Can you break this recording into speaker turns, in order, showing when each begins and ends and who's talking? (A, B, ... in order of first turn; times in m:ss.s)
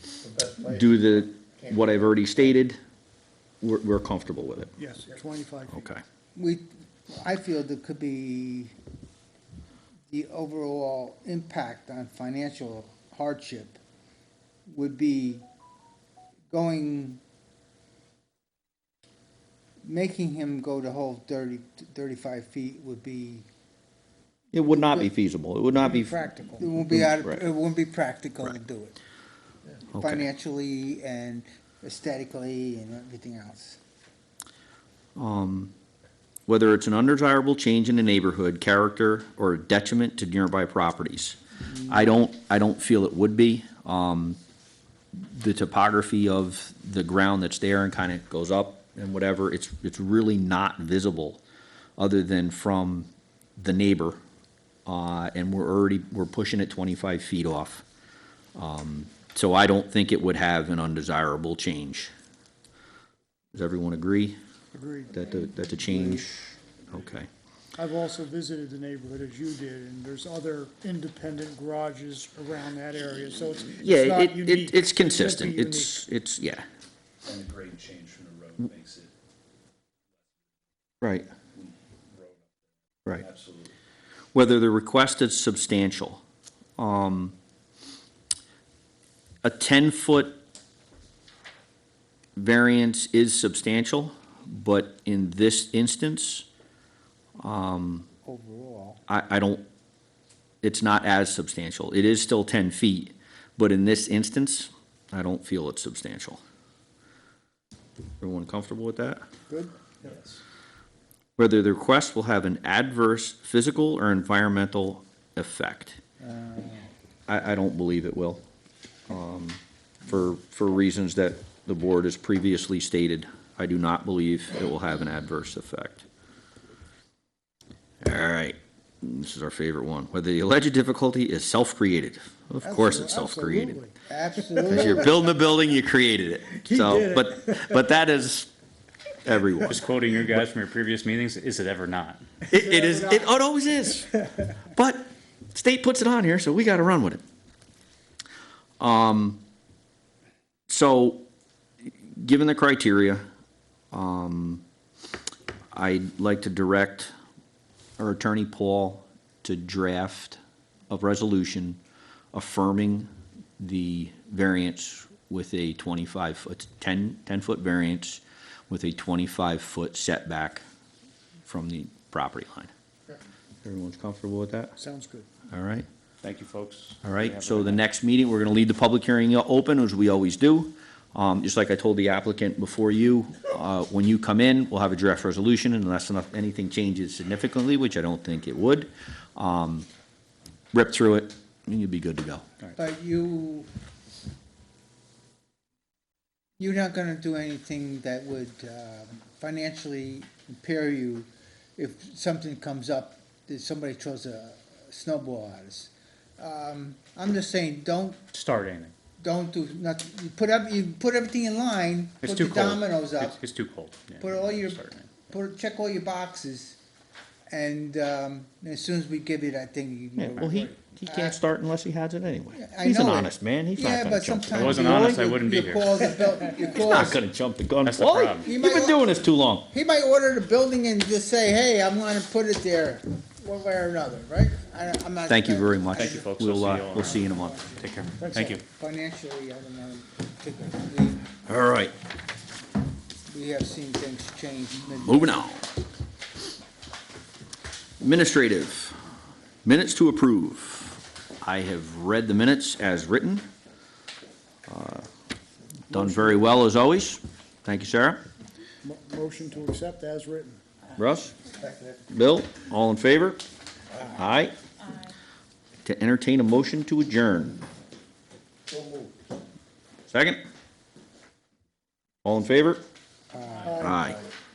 0:00.4-0:02.8 A
0:03.6-0:04.8 A
0:04.8-0:05.8 B
0:05.7-0:06.0 A
0:06.3-0:08.7 C
0:10.1-0:13.8 C
0:14.7-0:15.4 C
0:16.5-0:17.2 C
0:19.8-0:23.4 C
0:24.5-0:27.4 A
0:24.7-0:25.1 C
0:25.8-0:29.0 C
0:29.9-0:33.8 C
0:29.9-0:30.2 A
0:35.2-0:35.7 A
0:36.5-0:44.4 A
0:45.1-0:51.4 A
0:52.0-0:54.2 A
0:54.8-0:57.8 A
0:58.5-1:02.1 A
1:03.5-1:04.4 A
1:04.7-1:05.2 B
1:05.1-1:07.3 A
1:07.8-1:16.0 B
1:13.8-1:16.6 A
1:17.2-1:19.1 D
1:21.0-1:21.3 A
1:21.5-1:23.7 D
1:24.3-1:26.2 A
1:26.8-1:27.3 A
1:29.4-1:30.4 A
1:32.4-1:36.5 A
1:37.4-1:38.1 A
1:38.2-1:39.0 C
1:39.1-1:39.6 A
1:40.6-1:46.4 A
1:48.2-1:49.2 A
1:51.4-1:56.0 A
1:56.2-1:56.9 C
1:57.3-1:58.4 A
1:59.1-2:06.0 A
2:08.0-2:13.8 A
2:12.6-2:13.9 B
2:14.1-2:15.2 C
2:14.7-2:18.5 A
2:16.6-2:17.7 B
2:19.2-2:19.8 A
2:19.6-2:22.3 E
2:22.4-2:24.1 A
2:22.5-2:23.3 C
2:24.7-2:27.2 A
2:28.8-2:29.4 A
2:30.7-2:31.2 A
2:32.1-2:33.3 A
2:33.9-2:34.6 A
2:35.7-2:37.1 A
2:38.0-2:41.8 A
2:42.3-2:50.6 A
2:51.4-2:52.7 A
2:53.6-2:54.7 A
2:54.8-2:55.3 B
2:55.5-2:55.9 A
2:56.2-2:57.8 E
2:57.0-3:09.9 A
3:10.7-3:12.4 A
3:12.7-3:13.7 C
3:16.6-3:28.2 C
3:28.3-3:28.9 E
3:29.2-3:33.4 C
3:32.2-3:35.3 E
3:34.2-3:36.8 C
3:37.5-3:41.4 C
3:40.2-3:45.2 A
3:42.5-3:47.2 C
3:44.5-3:46.0 E
3:46.6-3:49.7 A
3:47.8-3:48.5 E
3:48.4-3:49.1 C
3:49.7-3:56.3 C
3:55.3-3:57.6 A
3:55.9-3:57.2 E
3:57.0-4:01.2 C
3:57.8-3:58.6 E
4:01.4-4:01.9 A
4:03.3-4:05.4 C
4:05.0-4:05.7 A
4:08.0-4:09.0 A
4:09.6-4:13.4 A
4:14.7-4:15.1 A
4:15.9-4:16.6 B
4:15.9-4:18.2 A
4:18.8-4:20.6 B
4:21.0-4:21.3 A
4:22.1-4:23.4 A
4:24.0-4:24.6 A
4:25.8-4:27.6 A
4:30.1-4:30.4 A
4:32.2-4:32.8 A
4:33.3-4:33.7 C
4:33.6-4:34.0 B
4:33.8-4:34.2 A